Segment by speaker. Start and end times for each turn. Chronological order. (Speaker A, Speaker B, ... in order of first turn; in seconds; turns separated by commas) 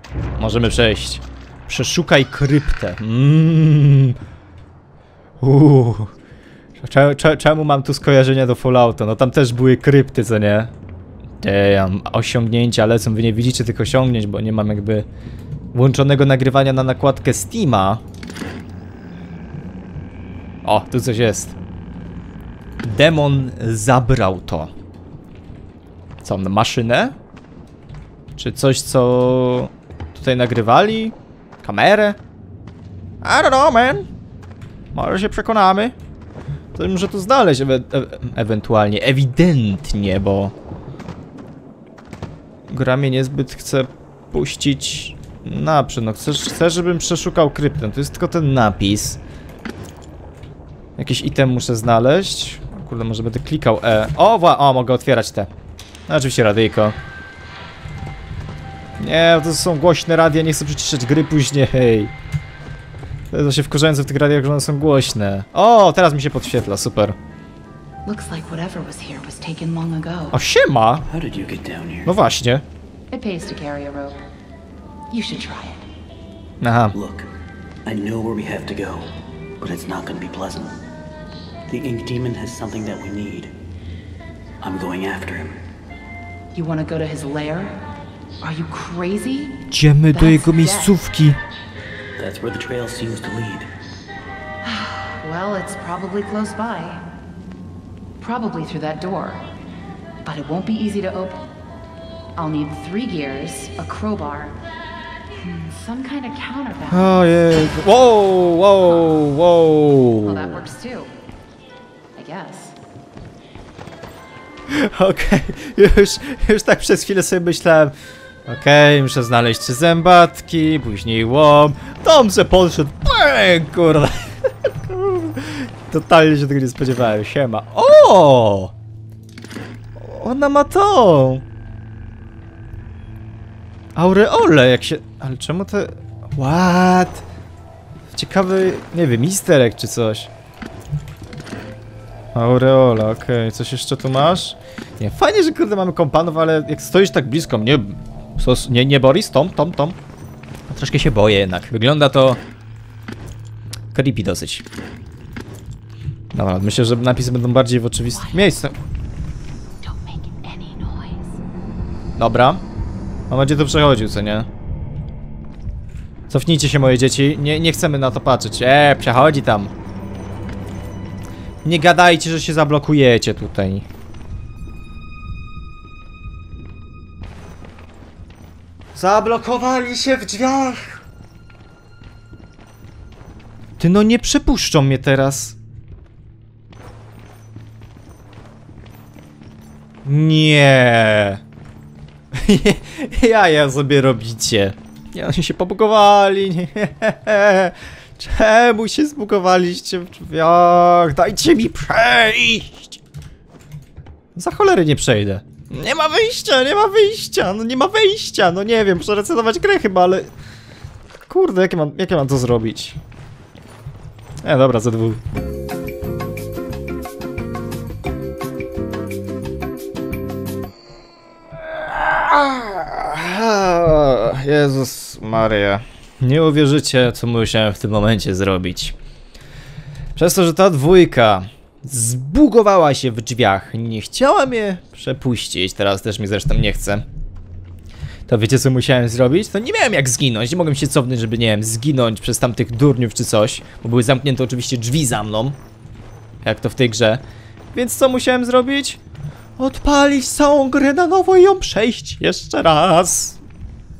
Speaker A: 0.4-4.2, Speaker A: 5.4-6.1, Speaker A: 6.8-10.7, Speaker A: 11.4-15.1, Speaker A: 15.7-18.0, Speaker A: 20.6-21.5, Speaker A: 22.8-24.7, Speaker A: 26.2-27.1, Speaker A: 28.4-32.2, Speaker A: 33.2-34.1, Speaker A: 34.9-35.9, Speaker A: 36.7-40.5, Speaker A: 42.7-49.2, Speaker A: 51.0-55.5, Speaker A: 56.1-57.0, Speaker A: 59.0-62.1, Speaker A: 63.3-67.2, Speaker B: 68.0-70.4, Speaker A: 70.3-71.1, Speaker C: 71.1-72.1, Speaker A: 72.0-72.6, Speaker B: 73.1-74.2, Speaker B: 75.1-75.8, Speaker A: 76.6-76.9, Speaker C: 76.9-77.3, Speaker C: 77.8-80.8, Speaker C: 81.7-83.5, Speaker C: 84.6-85.6, Speaker B: 86.5-87.8, Speaker B: 88.4-91.0, Speaker A: 89.7-91.4, Speaker C: 92.2-93.7, Speaker B: 94.6-97.0, Speaker B: 98.2-99.5, Speaker B: 100.2-101.4, Speaker B: 102.4-104.6, Speaker B: 105.4-107.2, Speaker A: 106.9-110.6, Speaker B: 110.2-111.1, Speaker B: 112.1-112.8, Speaker A: 114.7-117.9, Speaker A: 118.5-128.7, Speaker A: 130.0-131.4, Speaker A: 133.9-137.2, Speaker A: 138.1-140.3, Speaker A: 142.3-150.0, Speaker A: 150.7-152.4, Speaker A: 153.9-154.6, Speaker A: 156.3-158.7, Speaker B: 158.1-158.5, Speaker B: 159.8-161.4, Speaker A: 162.2-162.6, Speaker A: 163.3-164.5, Speaker A: 166.3-169.7, Speaker A: 171.6-173.8, Speaker A: 178.9-181.0, Speaker A: 183.8-185.6, Speaker A: 190.0-191.4, Speaker A: 192.3-203.0, Speaker A: 204.3-210.3, Speaker A: 211.3-213.0, Speaker A: 214.4-215.2, Speaker A: 221.7-228.9, Speaker A: 230.2-237.0, Speaker A: 238.3-245.6, Speaker A: 246.4-247.2, Speaker A: 247.7-249.0, Speaker A: 249.6-253.4